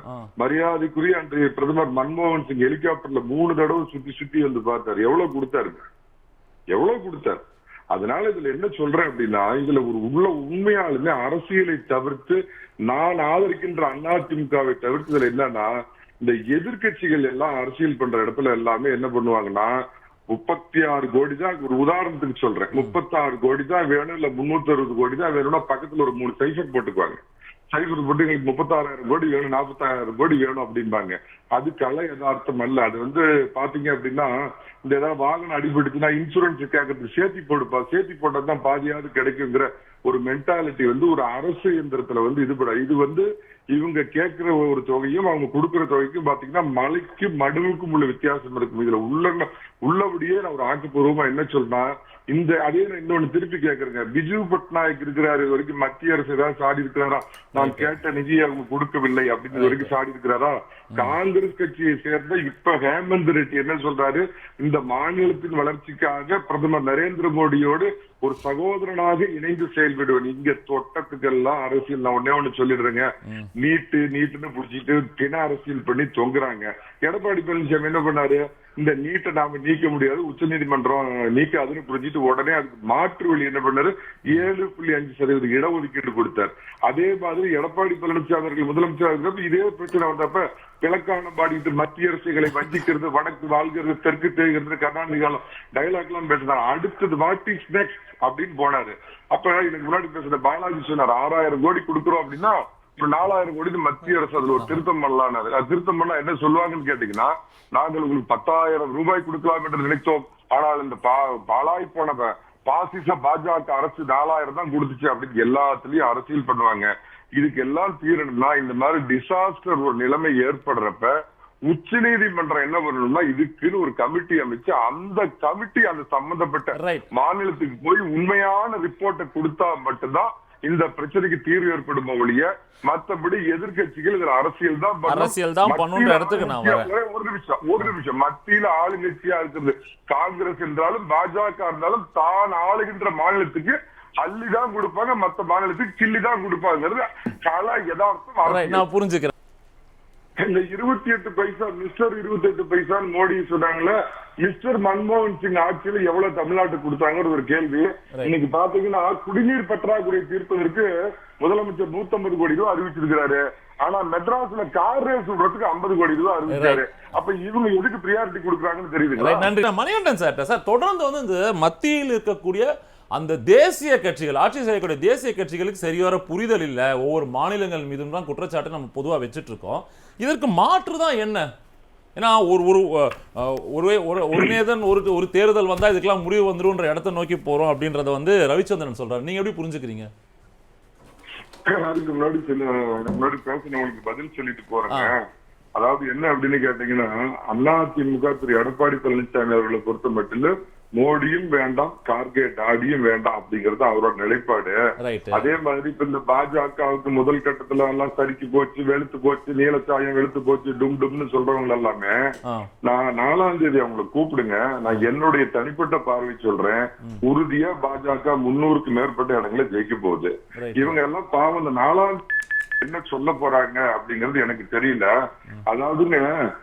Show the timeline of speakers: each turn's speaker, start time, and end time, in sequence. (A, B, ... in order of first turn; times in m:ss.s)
0:00.4-0:05.8 A
0:06.7-0:07.4 A
0:07.9-0:15.7 A
0:16.2-0:19.7 A
0:20.3-0:27.2 A
0:27.7-0:34.3 A
0:34.8-1:13.1 A
0:57.6-0:57.9 B
0:59.5-0:59.9 B
1:13.6-2:01.1 A
2:01.7-2:28.8 A
2:06.7-2:07.0 B
2:15.0-2:16.9 B
2:28.4-2:29.3 B
2:30.4-2:49.5 A
2:46.5-2:46.8 B
2:49.2-3:01.5 B
3:02.2-3:10.1 B
3:11.7-3:15.2 A
3:15.8-3:24.8 A
3:25.0-3:25.5 B
3:25.4-3:32.1 A
3:32.8-3:42.2 A
3:40.5-3:41.0 B
3:42.8-3:45.1 A
3:45.7-3:46.3 A